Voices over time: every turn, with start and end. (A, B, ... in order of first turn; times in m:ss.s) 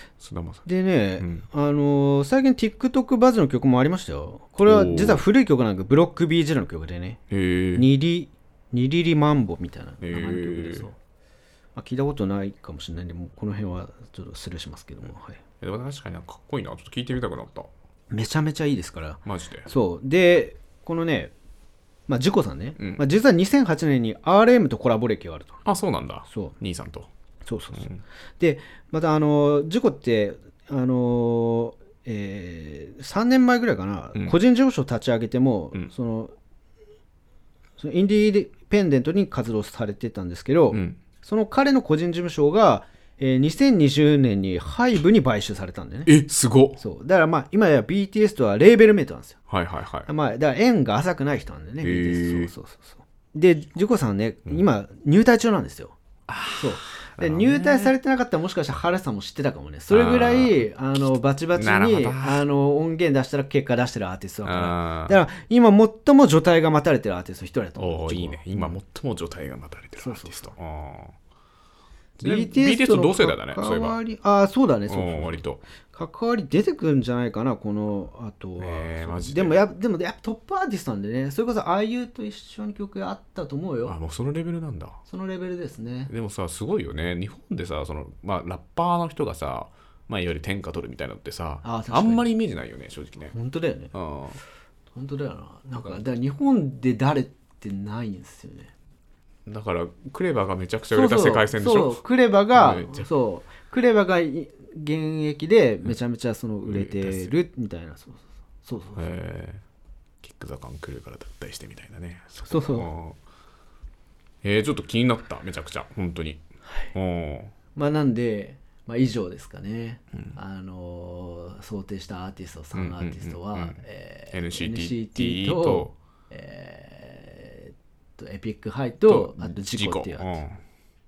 0:00.2-0:00.7 A
0:00.6-0:07.2 B
0:01.2-0:01.4 A
0:04.6-0:05.2 A
0:07.3-0:07.9 A
0:07.7-0:11.0 B
0:10.0-0:10.9 A
0:11.7-0:15.4 B
0:15.6-0:17.7 A
0:18.1-0:21.3 B
0:19.2-0:19.7 A
0:22.1-0:25.6 B
0:25.6-0:27.1 A
0:26.3-0:26.5 B
0:27.4-0:36.3 B
0:27.8-0:28.0 A
0:37.8-0:46.1 B
0:40.7-0:41.0 A
0:46.1-0:46.8 A
0:46.8-0:49.4 B
0:49.5-0:50.1 A
0:50.0-0:55.9 B
0:51.8-0:52.5 A
0:56.3-0:57.9 A
0:56.6-1:08.8 B
0:59.9-1:00.6 A
1:01.5-1:02.4 A
1:04.4-1:05.2 A
1:07.8-1:11.1 A
1:10.0-1:10.5 B
1:12.2-1:14.0 A
1:12.2-1:24.0 B
1:14.9-1:15.6 A
1:18.6-1:19.6 A
1:23.8-1:25.0 A
1:25.1-1:26.1 B
1:26.1-1:33.3 A
1:31.6-1:32.3 B
1:33.3-1:33.9 B
1:33.9-1:34.4 A
1:34.9-1:38.7 B
1:39.4-1:42.0 A
1:40.9-1:49.0 B
1:42.5-1:43.1 A
1:46.6-1:47.3 A
1:49.0-1:49.6 A
1:50.2-1:53.2 A
1:52.5-1:52.9 B
1:54.4-1:56.4 A
1:56.9-1:57.5 A
1:57.7-2:10.4 B
2:02.7-2:03.8 A
2:04.3-2:05.9 A
2:09.0-2:10.6 A